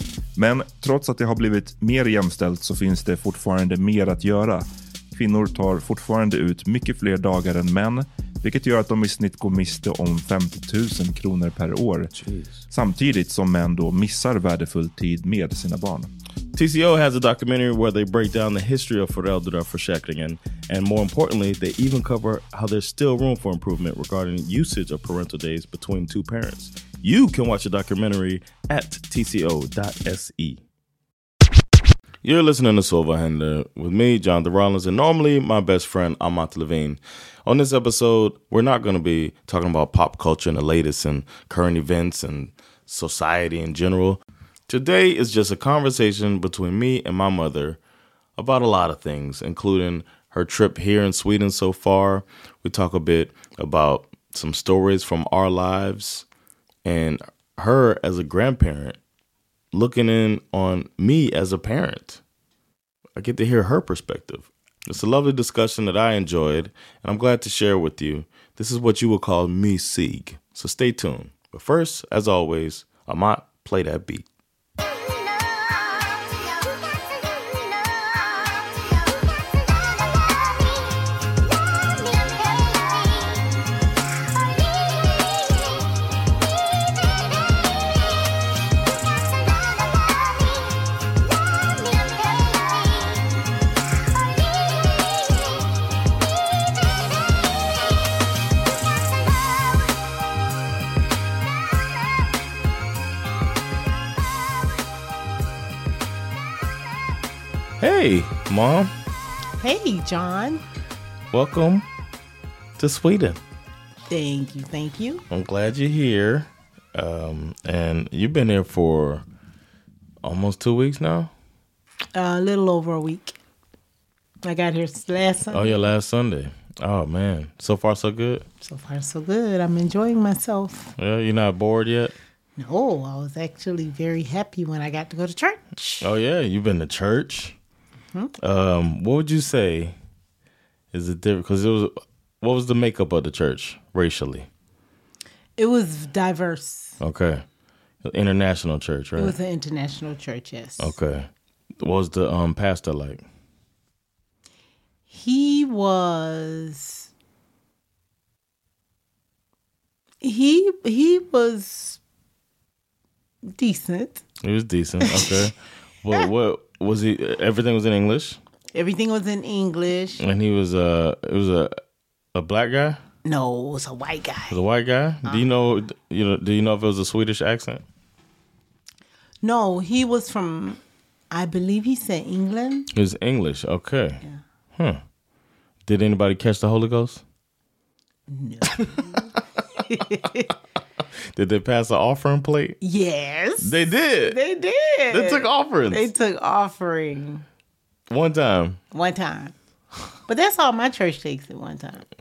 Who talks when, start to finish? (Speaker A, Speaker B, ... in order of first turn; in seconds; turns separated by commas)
Speaker A: 0.4-12.1, Speaker A: 12.7-16.1, Speaker B: 16.6-30.6, Speaker B: 32.2-47.8, Speaker B: 48.4-56.2, Speaker B: 56.9-59.0, Speaker B: 59.7-62.2, Speaker B: 63.2-74.2, Speaker B: 107.8-108.9, Speaker C: 109.6-110.6, Speaker B: 111.3-111.9, Speaker B: 112.8-113.4, Speaker C: 114.1-115.2, Speaker B: 115.3-119.2, Speaker B: 120.2-121.3, Speaker C: 122.2-123.4, Speaker C: 124.4-125.7, Speaker B: 125.5-128.4, Speaker C: 128.6-130.9, Speaker B: 131.0-132.2, Speaker C: 132.6-136.1, Speaker B: 136.0-137.6, Speaker B: 138.4-139.9, Speaker B: 140.9-144.5, Speaker C: 145.6-147.0, Speaker B: 147.0-147.4, Speaker B: 148.1-149.4, Speaker C: 149.2-150.9, Speaker B: 150.8-151.3, Speaker B: 151.8-153.2, Speaker C: 155.1-157.1, Speaker C: 160.2-162.0, Speaker C: 163.6-164.2, Speaker B: 164.4-168.4, Speaker C: 165.0-165.5, Speaker C: 168.7-170.2, Speaker B: 170.2-171.8, Speaker B: 172.3-173.0, Speaker C: 173.2-174.6, Speaker B: 174.5-177.8, Speaker C: 179.4-180.8, Speaker C: 181.3-182.9, Speaker B: 182.9-184.2, Speaker B: 185.9-187.2, Speaker C: 188.3-189.3, Speaker C: 189.9-190.5, Speaker B: 191.3-192.8, Speaker C: 192.8-197.4, Speaker B: 193.6-194.4, Speaker B: 195.1-196.1, Speaker B: 198.1-198.8, Speaker C: 198.9-199.5, Speaker C: 200.3-202.1